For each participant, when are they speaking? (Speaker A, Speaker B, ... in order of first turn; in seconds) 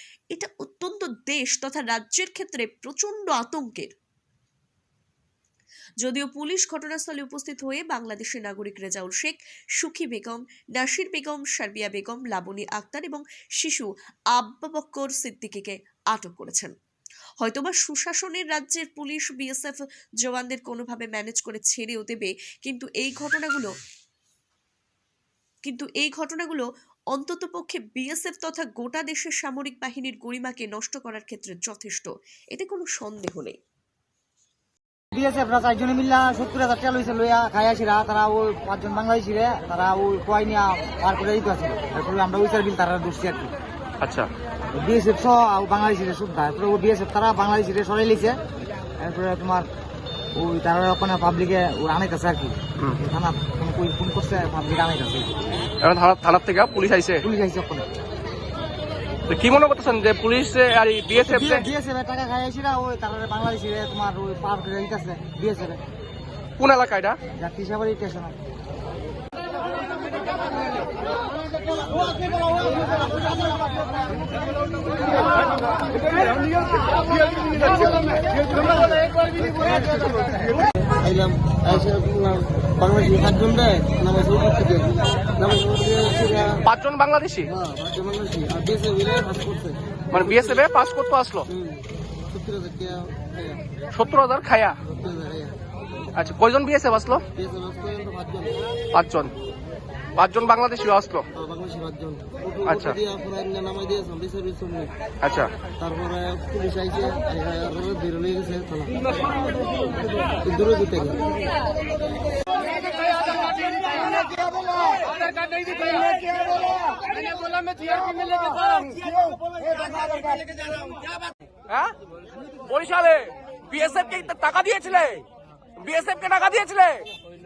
Speaker A: 0.3-3.9, 6.0-16.7, 17.4-23.7, 25.6-33.6
Speaker B: 35.1-43.5, 44.8-48.4, 49.0-49.7, 50.4-55.3, 57.2-57.9, 61.2-65.8, 67.4-68.3
Speaker C: 44.0-44.3, 55.8-57.2, 59.3-61.7, 66.6-67.2, 86.6-87.5, 90.1-91.5, 93.9-94.8, 96.2-97.2, 98.9-99.3, 100.2-101.2, 102.7-103.0, 105.2-105.5, 115.4-116.2, 117.0-119.0, 121.7-121.9, 122.7-125.2, 125.8-127.1
Speaker D: 77.3-80.2, 81.0-86.6, 87.5-89.8, 91.5-93.6, 94.9-95.6, 97.4-98.5, 101.4-104.9, 105.8-109.2, 110.4-111.5